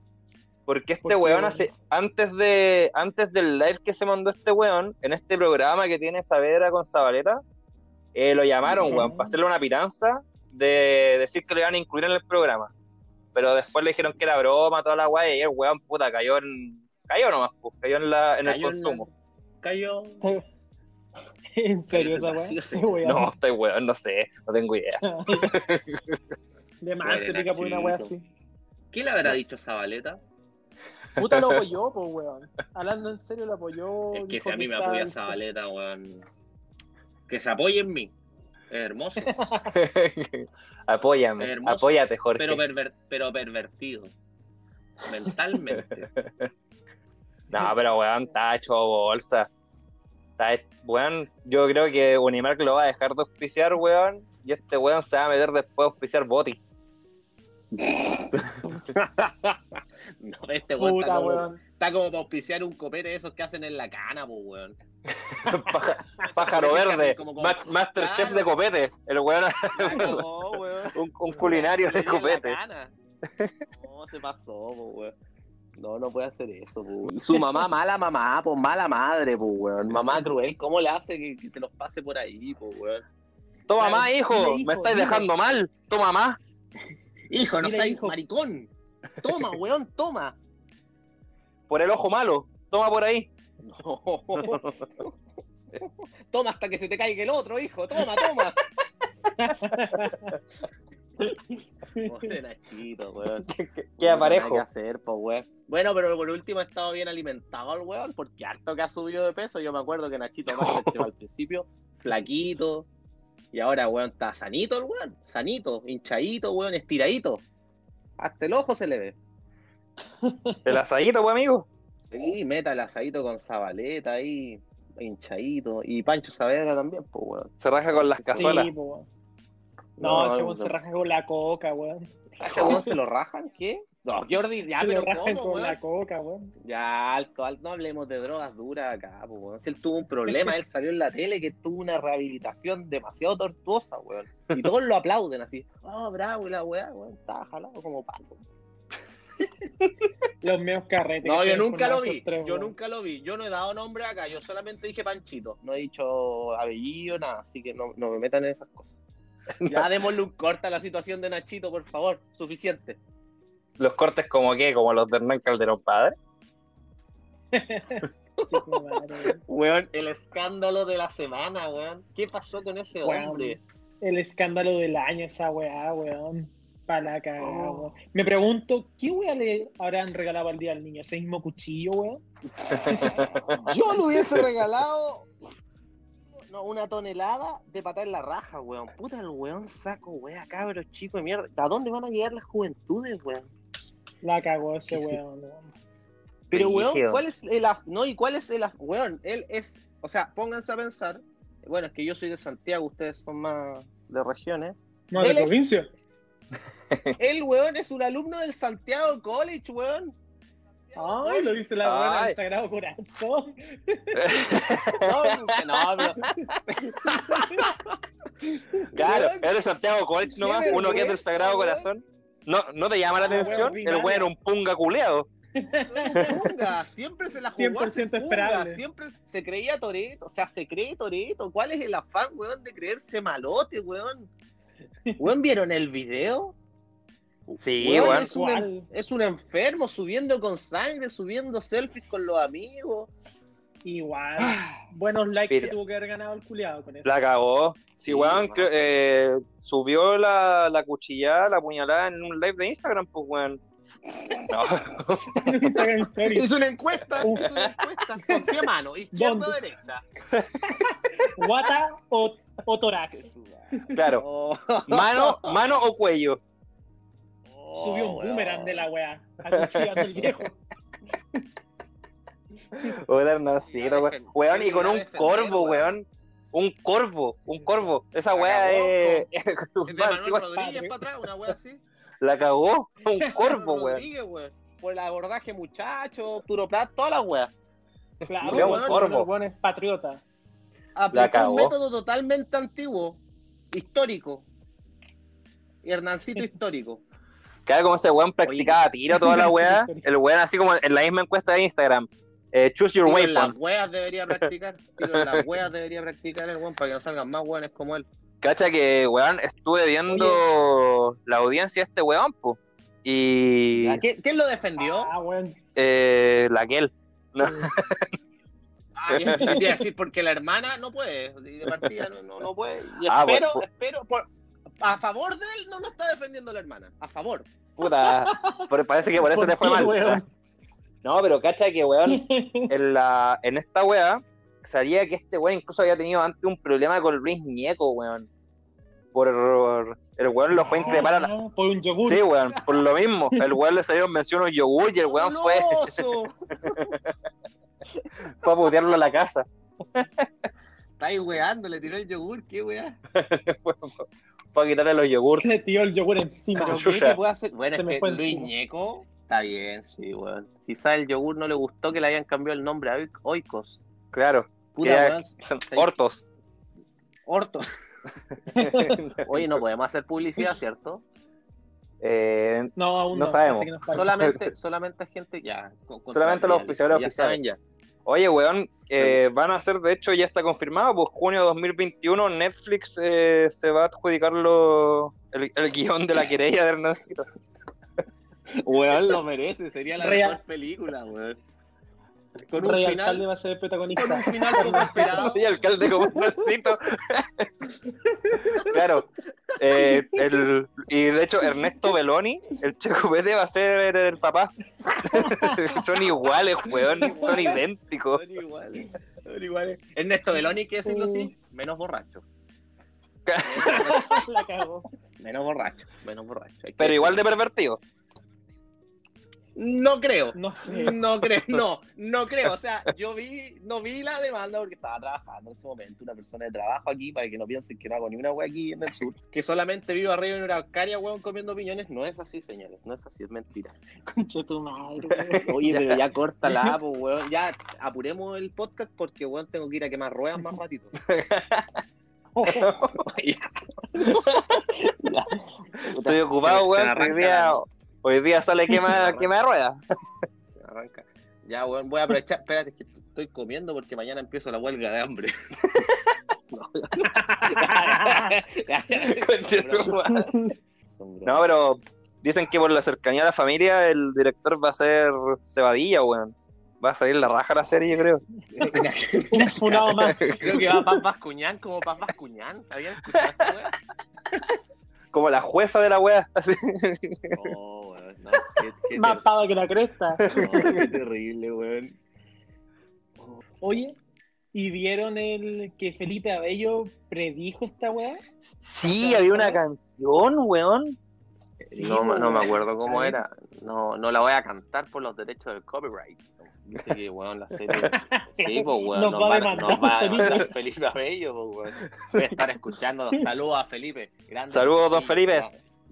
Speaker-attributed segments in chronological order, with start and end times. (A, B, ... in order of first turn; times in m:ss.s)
0:00.7-0:07.4 A
0:01.0-0:01.7 B
0:08.1-0:12.7 A
0:08.8-0:09.3 B
0:08.8-0:09.1 C
0:13.4-0:19.0 A
0:18.4-0:19.1 C
0:19.6-0:20.2 C
0:21.6-0:23.3 B
0:21.9-0:23.0 C
0:23.0-0:26.2 A
0:25.0-0:25.6 B
0:26.8-0:28.2 B
0:27.0-0:28.1 C
0:28.9-0:30.2 C
0:31.2-0:35.4 B
0:31.2-0:31.6 A
0:34.1-0:36.2 C
0:37.3-0:38.1 C
0:38.7-0:39.4 C
0:39.2-0:39.8 B
0:39.7-0:42.6 A
0:41.4-0:44.1 C
0:45.0-0:46.1 C
0:45.8-0:46.5 A
0:47.5-0:49.5 A
0:50.4-0:56.6 A
0:57.8-1:04.8 C
1:00.8-1:01.6 B
1:05.1-1:10.2 A
1:06.1-1:08.6 C
1:09.8-1:12.9 C
1:10.9-1:12.6 A
1:13.2-1:13.6 A
1:13.7-1:15.1 C
1:15.8-1:23.0 C
1:23.7-1:26.4 A
1:23.8-1:25.3 B
1:27.3-1:30.4 C
1:27.6-1:28.2 B
1:31.7-1:33.3 A
1:33.6-1:35.2 C
1:34.4-1:34.7 A
1:35.7-1:38.6 C
1:39.4-1:40.4 B
1:41.9-1:42.3 B
1:42.0-1:52.9 C
1:43.4-1:44.7 A
1:50.5-1:51.0 A
1:53.5-1:57.4 C
1:58.2-1:59.2 C
2:00.2-2:00.7 B
2:00.6-2:01.7 A
2:02.1-2:08.6 C
2:07.6-2:08.7 A
2:08.3-2:09.1 B
2:10.0-2:10.8 C
2:10.0-2:12.9 B
2:12.4-2:15.8 C
2:14.8-2:16.5 B
2:16.6-2:28.4 C
2:30.4-2:32.7 B
2:31.2-2:39.0 C
2:39.6-2:39.9 A
2:39.6-2:43.0 C
2:43.8-2:46.2 A
2:47.5-2:49.4 B
2:48.4-2:53.6 C
2:53.0-3:03.4 B
2:57.4-2:57.9 C
3:02.7-3:03.6 A
3:03.0-3:05.3 C
3:06.5-3:13.5 C
3:14.2-3:15.7 B
3:14.9-3:15.2 A
3:16.5-3:25.6 C
3:16.5-3:17.2 A
3:25.1-3:25.9 B
3:26.9-3:27.2 A
3:27.2-3:30.2 C
3:30.9-3:31.6 C
3:31.0-3:34.9 B
3:31.8-3:32.4 A
3:34.2-3:36.6 A
3:35.0-3:38.0 C
3:37.0-3:37.8 B
3:38.5-3:38.8 B
3:38.8-3:39.5 C
3:38.9-3:45.3 A
3:40.3-3:41.9 C
3:40.6-3:41.2 B
3:43.2-3:43.7 C
3:43.2-3:44.3 B
3:45.6-3:46.6 B
3:45.9-3:54.3 C
3:47.5-3:48.8 B
3:55.2-3:56.6 C
3:57.5-4:03.1 C
3:57.6-3:58.3 A
3:57.9-3:58.9 B
4:03.8-4:07.1 B
4:07.0-4:13.6 A
4:08.0-4:08.9 C
4:14.5-4:15.6 A
4:15.3-4:16.5 B
4:16.2-4:20.0 C
4:17.2-4:18.6 B
4:19.1-4:19.6 B
4:20.3-4:20.6 A
4:20.7-4:24.0 B
4:23.1-4:25.6 C
4:23.9-4:24.2 A
4:24.9-4:26.4 A
4:27.5-4:28.9 C
4:27.8-4:30.6 B
4:29.5-4:30.3 A
4:32.7-4:40.4 A
4:33.7-4:35.9 C
4:38.3-4:39.3 C
4:39.9-4:41.8 C
4:40.5-4:41.0 B
4:42.2-4:44.0 A
4:43.3-4:47.5 C
4:48.2-4:50.2 B
4:48.4-4:49.3 A
4:48.4-4:49.1 C
4:51.0-4:53.2 C
4:51.1-4:51.7 A
4:53.7-4:54.5 C
4:55.8-4:57.0 C
4:57.7-5:03.6 A
4:58.4-4:58.8 C
4:59.1-5:00.1 B
5:03.0-5:08.1 C
5:05.0-5:05.5 A
5:08.4-5:14.0 A
5:10.1-5:10.4 B
5:13.8-5:15.1 C
5:14.8-5:15.6 B
5:15.8-5:18.1 A
5:19.0-5:24.3 C
5:19.1-5:19.6 A
5:19.4-5:19.7 B
5:23.1-5:23.6 A
5:24.8-5:27.5 C
5:27.8-5:30.2 A
5:27.8-5:30.3 B
5:31.0-5:38.3 A
5:32.1-5:32.7 B
5:39.1-5:41.3 A
5:40.5-5:42.3 B
5:42.0-5:46.0 A
5:45.1-5:46.3 C
5:46.7-5:47.1 A
5:48.3-5:50.3 A
5:51.0-5:53.0 C
5:53.1-5:55.5 A
5:55.4-5:56.9 B
5:56.6-5:57.2 A
5:56.6-6:03.8 C
5:57.8-5:58.5 B
6:04.1-6:06.2 A
6:04.8-6:06.0 C
6:07.3-6:07.7 C
6:08.5-6:09.0 B
6:08.6-6:09.6 A
6:09.2-6:11.0 C
6:12.0-6:14.4 A
6:12.8-6:14.2 B
6:13.9-6:17.6 C
6:16.1-6:17.4 A
6:18.1-6:27.3 A
6:28.5-6:31.4 C
6:30.0-6:30.4 B
6:32.5-6:33.2 C
6:32.6-6:35.3 B
6:34.0-6:35.5 C
6:34.8-6:37.5 A
6:35.9-6:36.3 B
6:38.0-6:38.8 B
6:38.6-6:48.2 A
6:44.9-6:45.8 B
6:46.7-6:52.2 C
6:47.0-6:47.6 B
6:50.8-6:51.3 B
6:53.3-6:54.0 A
6:53.4-6:54.3 C
6:53.6-6:54.9 B
6:55.2-6:57.2 C
6:56.8-6:57.8 A
6:59.6-7:13.8 C
7:00.3-7:01.0 B
7:14.1-7:15.5 B
7:15.3-7:16.0 A
7:15.4-7:21.0 C
7:21.0-7:21.8 A
7:22.4-7:22.8 B
7:22.4-7:23.0 A
7:22.9-7:27.6 C
7:24.0-7:24.6 A
7:26.0-7:29.8 A
7:28.8-7:29.3 C
7:30.6-7:35.6 C
7:35.7-7:36.1 A
7:36.5-7:40.2 C
7:37.1-7:38.3 B
7:39.0-7:40.4 A
7:40.1-7:40.5 B
7:41.0-7:41.5 C
7:41.2-7:48.8 A
7:48.5-7:53.8 C
7:49.3-7:51.0 B
7:49.9-7:50.4 A
7:55.1-7:57.5 A
7:57.3-7:59.2 C
7:58.9-8:00.8 B
8:00.2-8:00.9 A
8:00.3-8:02.0 C
8:03.6-8:04.0 B
8:04.5-8:08.2 B
8:08.5-8:11.0 A
8:09.0-8:09.6 B
8:11.6-8:25.7 C
8:11.7-8:13.2 B
8:17.8-8:20.5 B
8:24.5-8:25.5 A